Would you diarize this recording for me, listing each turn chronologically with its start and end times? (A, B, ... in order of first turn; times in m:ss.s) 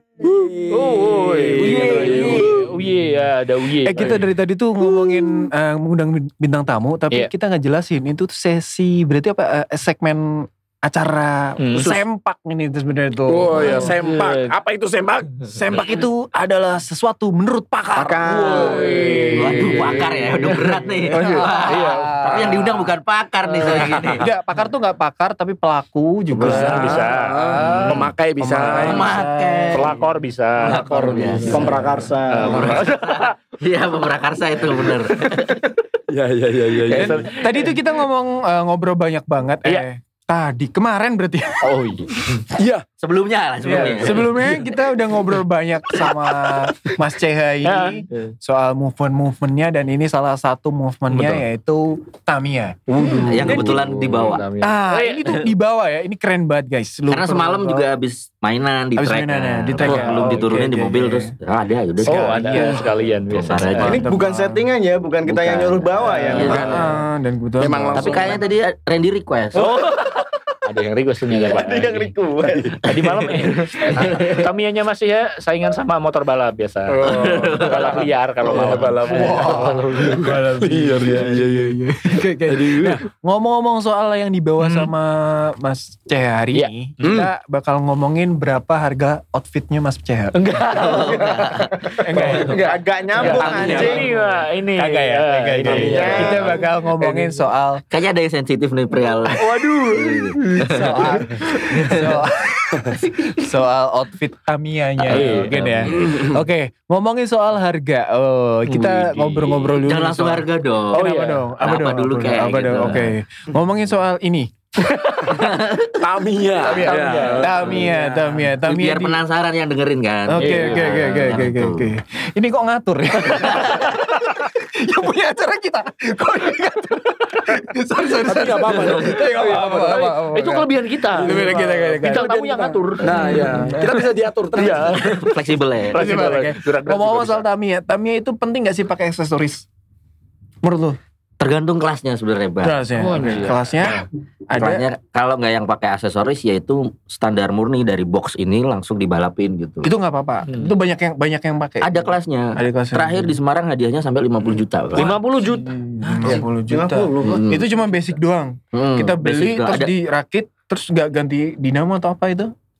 0:00.2-0:02.7 A
0:00.7-0:04.2 B
0:01.6-0:02.6 C
0:03.8-0:14.0 D
0:11.6-0:12.0 B
0:13.3-0:15.5 A
0:13.6-0:14.6 B
0:15.5-0:19.9 D
0:18.0-0:19.4 A
0:18.0-0:19.3 E
0:18.3-0:20.7 B
0:19.3-0:24.2 C
0:20.4-0:22.9 D
0:21.1-0:21.5 A
0:21.6-0:22.4 B
0:23.6-0:23.9 B
0:24.1-0:30.0 D
0:26.3-0:29.1 A
0:26.4-0:27.7 B
0:28.6-0:29.9 C
0:29.7-0:33.3 B
0:30.6-0:31.7 C
0:30.7-0:31.7 D
0:31.5-0:32.8 E
0:32.4-0:35.6 C
0:36.1-0:37.4 A
0:36.8-0:37.7 B
0:37.4-0:41.7 D
0:41.6-0:42.2 B
0:42.5-0:42.8 A
0:43.0-0:44.4 C
0:43.6-0:53.8 D
0:47.6-0:48.0 B
0:51.1-0:51.4 B
0:52.9-0:54.5 C
0:52.9-0:55.4 B
0:54.6-0:57.9 D
0:57.1-1:04.0 C
0:59.0-1:01.3 D
1:00.1-1:00.5 B
1:02.0-1:02.9 D
1:02.0-1:04.0 B
1:03.5-1:04.6 D
1:03.8-1:06.7 E
1:05.2-1:06.9 C
1:06.0-1:06.8 A
1:06.5-1:08.3 D
1:07.6-1:08.4 A
1:07.9-1:09.8 C
1:09.6-1:12.1 B
1:11.3-1:12.7 E
1:12.4-1:13.5 A
1:12.8-1:20.4 B
1:14.0-1:14.5 C
1:16.9-1:21.8 A
1:17.0-1:18.1 C
1:18.6-1:30.4 D
1:22.5-1:23.0 A
1:24.6-1:24.9 B
1:26.5-1:27.1 B
1:27.0-1:27.3 A
1:30.3-1:31.6 B
1:30.6-1:32.6 C
1:32.0-1:34.2 D
1:32.1-1:32.6 A
1:32.2-1:34.2 E
1:32.2-1:36.6 B
1:33.2-1:34.1 C
1:34.7-1:37.8 D
1:35.6-1:36.6 E
1:35.6-1:37.1 A
1:37.9-1:42.3 C
1:39.3-1:55.6 D
1:45.0-1:46.3 C
1:45.0-1:45.9 B
1:48.7-1:53.1 C
1:50.9-1:51.4 B
1:52.7-1:53.0 B
1:55.2-1:56.0 C
1:56.0-1:57.7 A
1:56.6-1:59.2 D
1:56.7-1:58.4 B
1:58.6-2:01.9 C
2:00.3-2:12.3 D
2:00.4-2:01.4 B
2:03.4-2:03.9 C
2:08.2-2:10.0 A
2:08.8-2:09.2 C
2:09.2-2:13.6 B
2:11.2-2:15.3 A
2:13.1-2:14.1 D
2:14.5-2:15.1 B
2:15.0-2:16.0 C
2:15.9-2:17.4 B
2:15.9-2:19.6 D
2:20.6-2:21.0 D
2:21.4-2:23.5 C
2:22.6-2:24.9 D
2:23.0-2:24.0 B
2:24.5-2:29.9 C
2:29.8-2:33.3 D
2:30.5-2:30.7 B
2:31.8-2:35.2 C
2:34.9-2:35.7 B
2:35.4-2:42.5 D
2:36.0-2:36.4 C
2:36.2-2:37.4 E
2:37.2-2:37.7 C
2:38.7-2:39.9 C